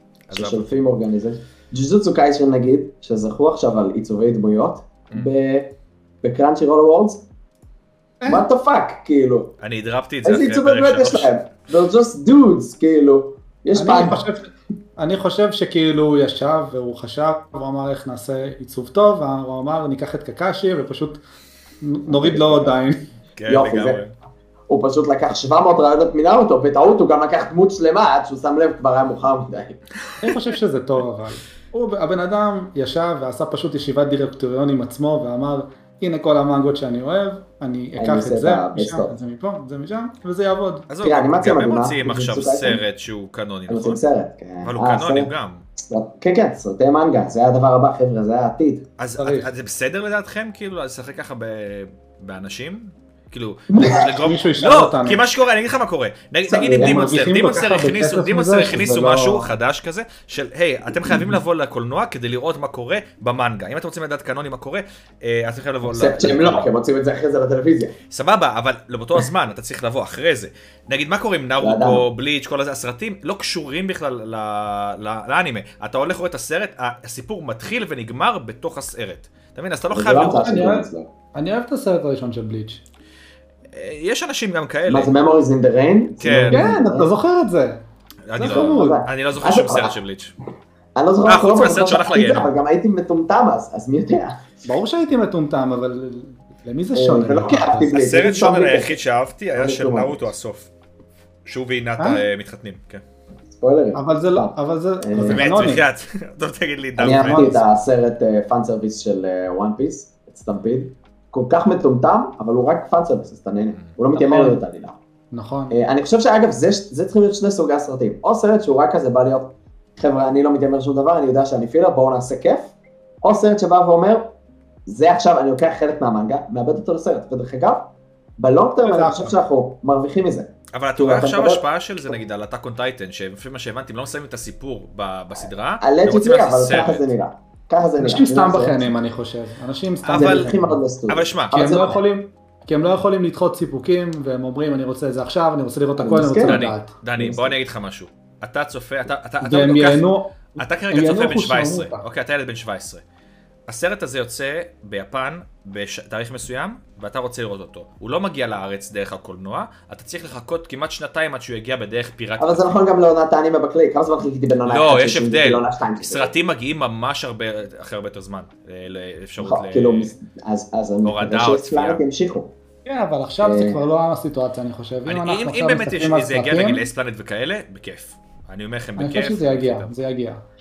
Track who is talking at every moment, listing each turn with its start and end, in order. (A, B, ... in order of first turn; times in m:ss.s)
0:00.3-0:00.7 A
0:00.3-0:07.2 B
0:08.2-0:08.4 C
0:08.2-0:09.5 B
0:09.6-0:11.3 A
0:10.2-0:14.2 B
0:13.8-0:21.2 C
0:21.8-0:23.0 C
0:22.1-0:22.8 B
0:23.4-0:24.1 A
0:23.4-0:24.0 B
0:24.7-0:29.8 B
0:30.1-0:30.4 A
0:30.2-0:40.9 C
0:38.0-0:39.1 B
0:40.9-0:44.0 A
0:41.0-0:42.8 B
0:43.7-0:48.8 B
0:44.6-0:45.6 A
0:49.0-1:06.7 A
0:49.2-0:49.5 C
0:53.7-0:54.4 B
0:54.2-0:55.2 C
0:56.5-0:57.1 B
0:56.7-0:59.5 C
1:05.8-1:07.9 B
1:08.1-1:20.6 A
1:11.6-1:12.0 B
1:19.9-1:21.1 B
1:20.4-1:22.8 C
1:23.7-1:25.1 A
1:24.9-1:27.1 B
1:26.2-1:26.8 A
1:26.5-1:27.8 C
1:28.3-1:30.3 A
1:28.3-1:29.0 C
1:28.4-1:30.0 B
1:30.9-1:34.4 B
1:31.3-1:32.5 A
1:34.6-1:37.9 C
1:36.9-1:39.0 B
1:37.9-1:40.7 A
1:39.5-1:40.3 B
1:41.4-1:43.0 A
1:43.5-1:45.6 B
1:43.9-1:45.8 C
1:45.3-1:47.6 A
1:47.0-1:55.0 B
1:47.2-1:47.6 C
1:54.1-1:54.6 C
1:55.3-1:55.8 C
1:55.7-2:04.3 B
2:04.9-2:11.6 B
2:08.8-2:09.3 C
2:10.7-2:17.1 A
2:15.8-2:18.9 B
2:18.0-2:20.8 C
2:20.0-2:20.5 A
2:20.1-2:22.0 B
2:21.1-2:21.9 A
2:21.5-2:26.9 C
2:26.0-2:26.6 B
2:26.4-2:33.0 A
2:27.2-2:27.6 B
2:29.4-2:30.3 C
2:30.9-2:32.0 C
2:33.7-2:42.8 A
2:42.4-2:46.3 B
2:44.7-2:50.1 A
2:49.4-2:52.5 B
2:51.0-2:52.0 A
2:52.8-2:56.8 C
2:53.4-2:53.8 B
2:55.0-2:59.9 A
2:59.0-3:00.4 C